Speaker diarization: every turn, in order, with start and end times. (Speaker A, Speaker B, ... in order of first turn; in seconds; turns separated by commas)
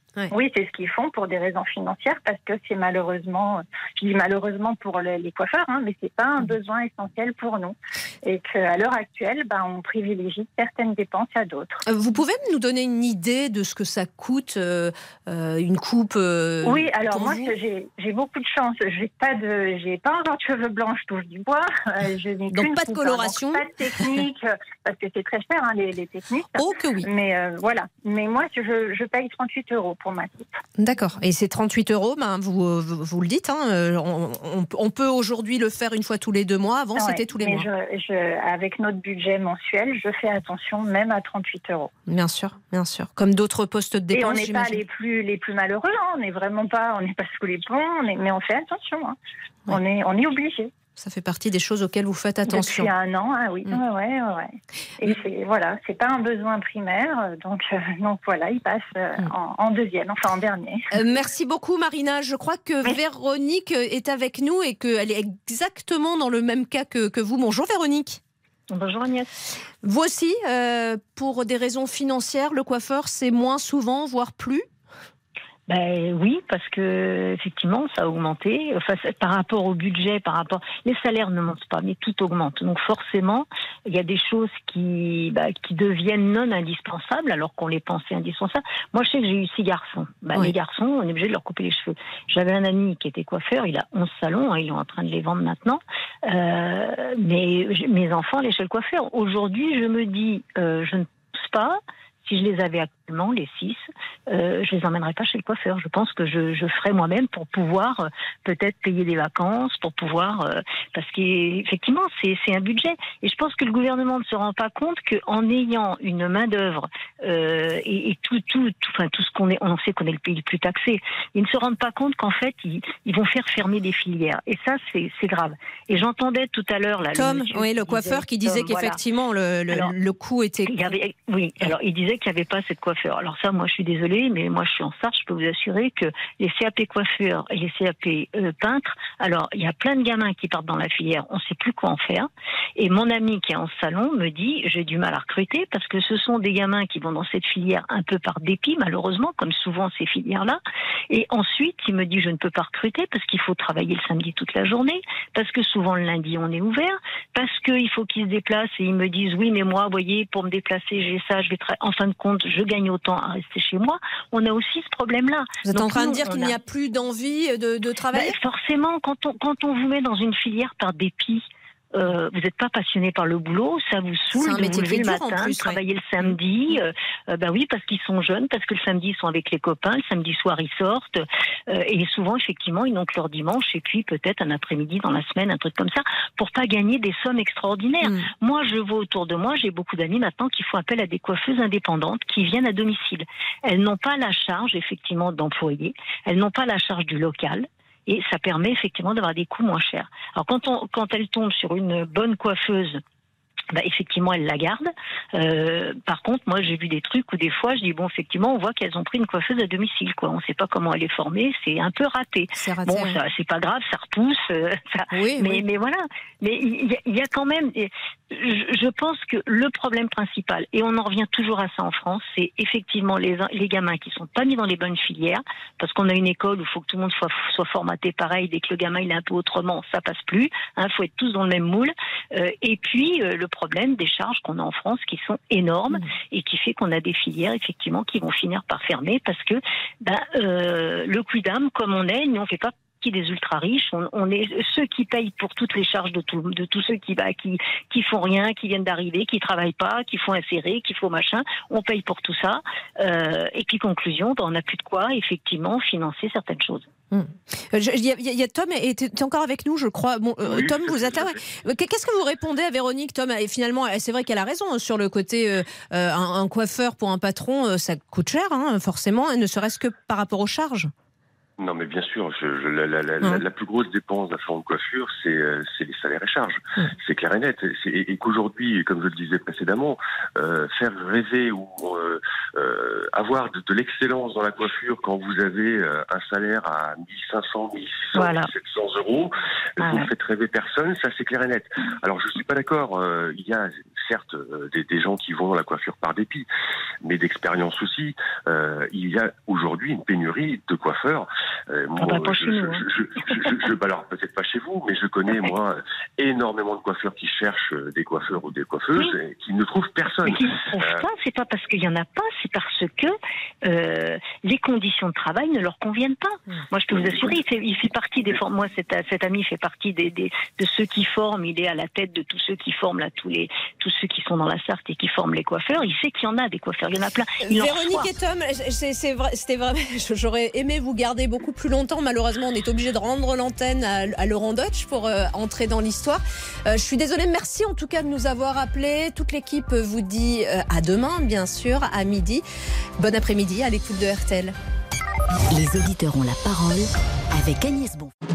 Speaker A: 0.3-11.8, Speaker B: 11.8-17.5, Speaker A: 16.6-30.6, Speaker B: 22.5-24.2, Speaker B: 26.5-27.1, Speaker B: 30.8-37.7, Speaker A: 37.0-41.9, Speaker B: 42.1-44.8, Speaker A: 44.1-49.1, Speaker A: 49.7-50.7, Speaker B: 51.0-52.9, Speaker A: 52.5-61.0, Speaker B: 60.9-68.2, Speaker C: 68.7-69.3, Speaker B: 69.8-74.7, Speaker C: 75.7-129.0, Speaker B: 127.1-130.8, Speaker C: 130.7-166.5, Speaker B: 165.6-168.4, Speaker C: 168.1-203.0, Speaker B: 174.3-176.3, Speaker C: 203.7-256.9, Speaker B: 212.6-213.2, Speaker B: 215.1-215.6, Speaker B: 257.1-270.9, Speaker D: 260.4-261.4, Speaker D: 271.6-296.5, Speaker C: 288.1-288.5, Speaker C: 289.8-290.1, Speaker D: 297.0-311.0, Speaker C: 302.0-302.9, Speaker C: 310.2-328.1, Speaker D: 316.9-317.4, Speaker B: 327.4-342.4, Speaker B: 343.0-344.5, Speaker E: 345.5-348.1